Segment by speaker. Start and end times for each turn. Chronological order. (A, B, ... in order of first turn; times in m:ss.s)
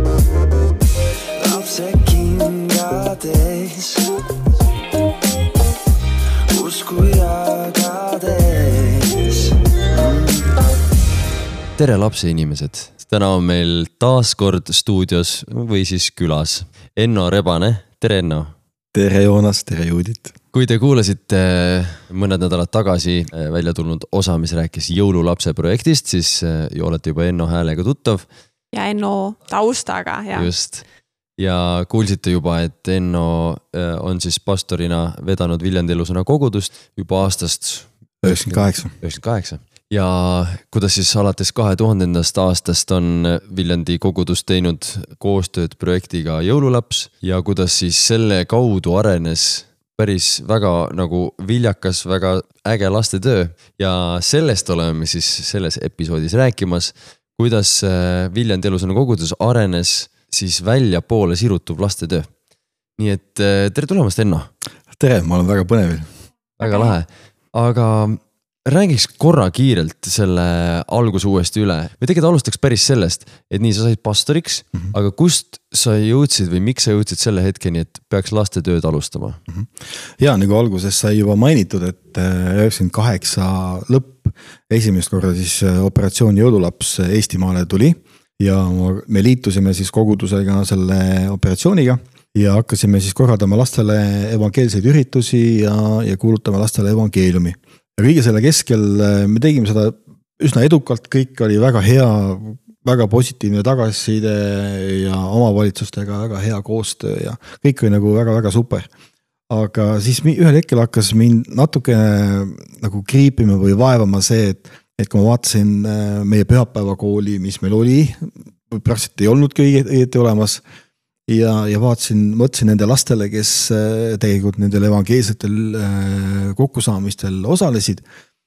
0:01.4-0:04.1 A
0:06.5-0:10.5 A
0:11.8-0:18.5 A
0:18.9-0:20.4 B
0:20.5-0:28.3 A
0:28.7-0:30.5 C
0:30.3-0:30.8 A
0:31.4-1:02.3 A
0:38.2-0:38.9 B
1:03.0-1:04.5 A
1:04.9-1:06.1 B
1:06.6-1:19.4 A
1:06.6-1:06.9 C
1:19.5-1:48.9 B
1:49.5-2:00.6 B
2:01.3-2:08.0 B